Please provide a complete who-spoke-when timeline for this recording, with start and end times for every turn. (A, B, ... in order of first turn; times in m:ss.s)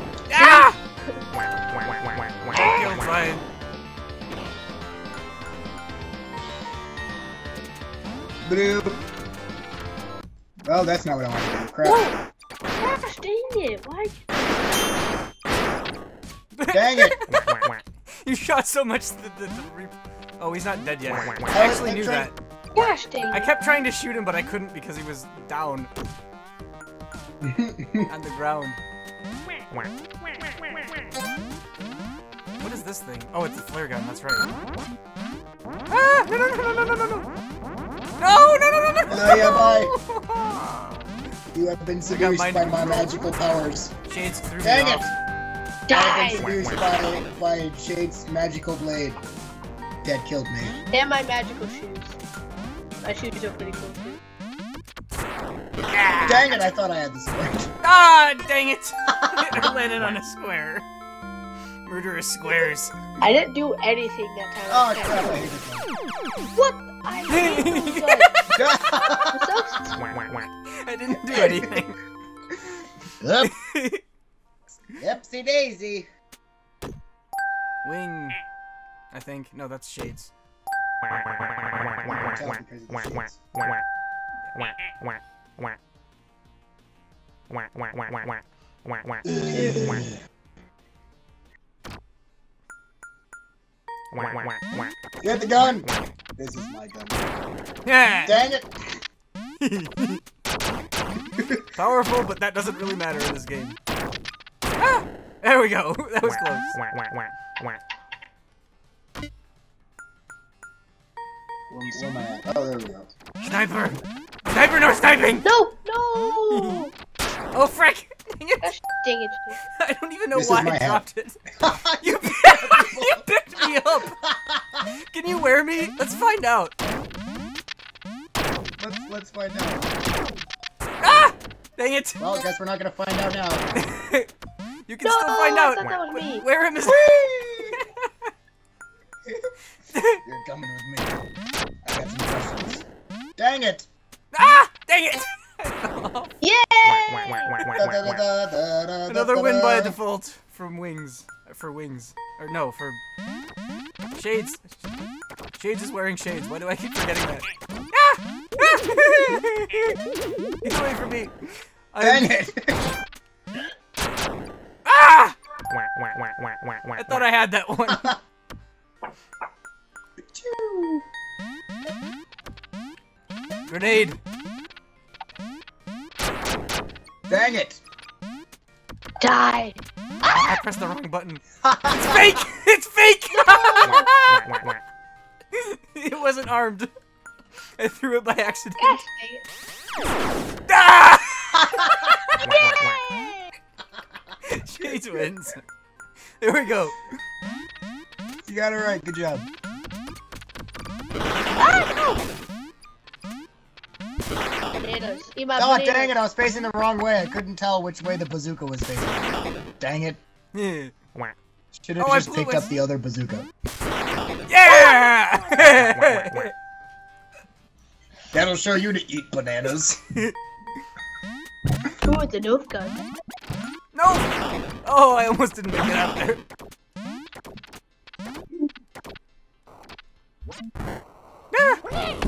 0:00.3-0:00.8 A
0:00.3-0:01.2 B
0:02.5-0:03.4 A
0:08.4-0:09.0 C
0:10.7-0:12.1 C
0:11.8-0:12.2 B
0:12.8-0:14.3 B
0:16.6-0:17.4 A
0:16.7-0:17.2 C
0:18.2-0:22.4 A
0:21.5-0:22.3 C
0:22.8-0:23.5 B
0:23.3-0:25.9 A
0:27.4-0:28.1 C
0:28.1-0:28.8 A
0:32.6-0:34.5 A
0:35.9-0:37.3 A
0:38.2-0:41.1 A
0:39.1-0:39.9 C
0:41.5-0:43.9 C
0:42.1-0:43.1 A
0:44.1-0:45.1 A
0:44.6-0:45.1 C
0:45.9-0:46.5 B
0:45.9-0:49.2 C
0:50.0-0:50.8 C
0:50.9-0:52.2 B
0:53.0-0:54.2 B
0:55.9-0:56.6 A
0:56.2-0:57.7 C
0:57.8-1:00.9 A
0:59.1-0:59.7 C
1:01.9-1:02.9 A
1:03.2-1:05.4 B
1:04.7-1:05.9 C
1:06.5-1:08.4 B
1:07.3-1:08.4 A
1:08.6-1:09.5 C
1:09.3-1:10.0 B
1:10.7-1:12.0 A
1:11.3-1:11.7 C
1:12.6-1:13.5 C
1:13.4-1:14.0 A
1:14.8-1:16.1 C
1:17.8-1:18.4 A
1:19.1-1:20.3 A
1:22.0-1:23.4 C
1:29.3-1:30.2 C
1:35.2-1:37.2 C
1:37.8-1:38.4 A
1:38.2-1:39.0 C
1:39.6-1:40.2 A
1:41.4-1:41.7 C
1:41.7-1:43.8 A
1:44.8-1:46.8 A
1:51.7-1:53.1 C
1:53.4-1:55.5 A
1:55.4-1:56.9 B
1:56.5-1:56.8 A
1:57.5-1:58.7 A
1:58.6-1:59.6 B
1:59.8-2:01.4 A
2:00.4-2:01.0 C
2:01.6-2:03.3 C
2:02.0-2:04.2 A
2:04.1-2:04.9 C
2:05.1-2:06.7 A
2:08.8-2:09.9 C
2:11.0-2:12.2 A
2:12.2-2:13.6 C
2:13.7-2:14.3 A
2:14.9-2:18.1 A
2:15.0-2:16.4 B
2:16.8-2:17.9 C
2:19.9-2:20.2 A
2:20.2-2:21.2 C
2:21.8-2:22.9 C
2:23.4-2:23.9 C
2:24.3-2:26.3 A
2:26.4-2:27.8 B
2:27.8-2:30.0 C
2:29.1-2:33.0 A
2:34.2-2:34.8 A
2:35.5-2:40.0 A
2:40.6-2:42.4 A
2:42.0-2:42.9 C
2:44.8-2:45.4 A
2:47.0-2:48.1 A
2:47.9-2:48.2 C
2:50.3-2:51.0 C
2:53.7-2:54.2 A
2:57.3-2:57.8 C
2:59.2-2:59.8 B
3:00.2-3:01.4 A
3:01.6-3:02.4 C
3:02.0-3:04.5 A
3:03.3-3:04.1 B
3:05.5-3:06.9 A
3:07.8-3:09.0 A
3:08.8-3:09.4 B
3:10.7-3:12.4 A
3:12.4-3:13.6 B
3:14.5-3:15.6 A
3:16.4-3:17.0 A
3:18.5-3:19.5 C
3:21.6-3:22.2 B
3:24.7-3:26.1 B
3:25.6-3:30.2 C
3:30.5-3:30.9 A
3:31.7-3:33.5 C
3:32.0-3:32.7 A
3:34.5-3:36.5 A
3:34.7-3:35.8 B
3:38.3-3:40.0 C
3:42.0-3:43.0 B
3:43.9-3:46.4 A
3:51.5-3:51.8 A